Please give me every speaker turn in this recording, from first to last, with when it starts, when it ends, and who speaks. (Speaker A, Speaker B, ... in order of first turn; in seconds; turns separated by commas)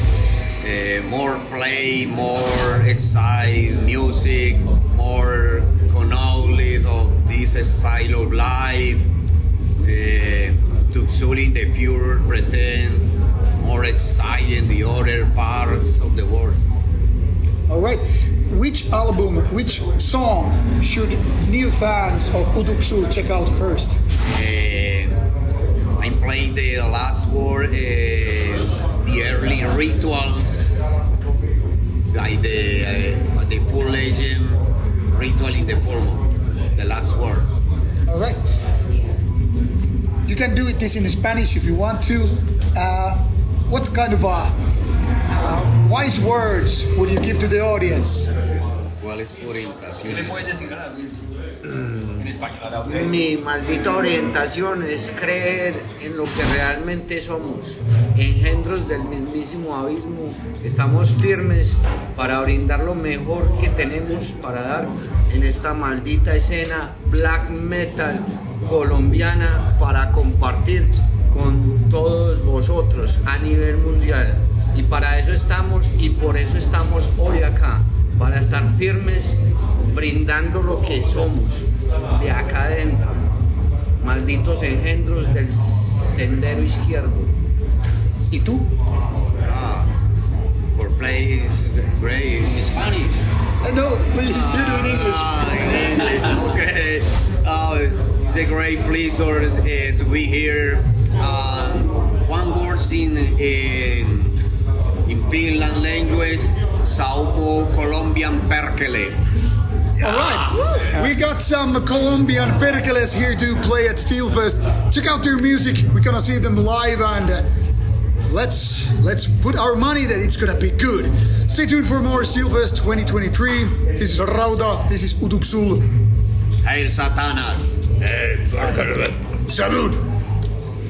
Speaker A: 0.6-9.1, Speaker A: 9.8-16.6, Speaker B: 17.7-24.0, Speaker A: 24.2-25.2, Speaker A: 26.0-30.7, Speaker A: 32.1-34.6, Speaker A: 35.1-37.5, Speaker B: 38.1-38.4, Speaker B: 40.2-44.5, Speaker B: 45.3-48.3, Speaker A: 49.0-50.5, Speaker C: 50.0-51.2, Speaker D: 51.6-52.2, Speaker C: 52.2-53.2, Speaker D: 52.8-83.3, Speaker D: 84.0-87.3, Speaker B: 88.3-88.7, Speaker A: 89.4-89.9, Speaker A: 90.7-93.2, Speaker B: 93.6-96.2, Speaker A: 94.3-104.4, Speaker A: 105.0-109.2, Speaker B: 110.0-117.5, Speaker A: 110.0-110.9, Speaker B: 118.3-125.9, Speaker A: 126.6-129.2, Speaker B: 129.4-130.0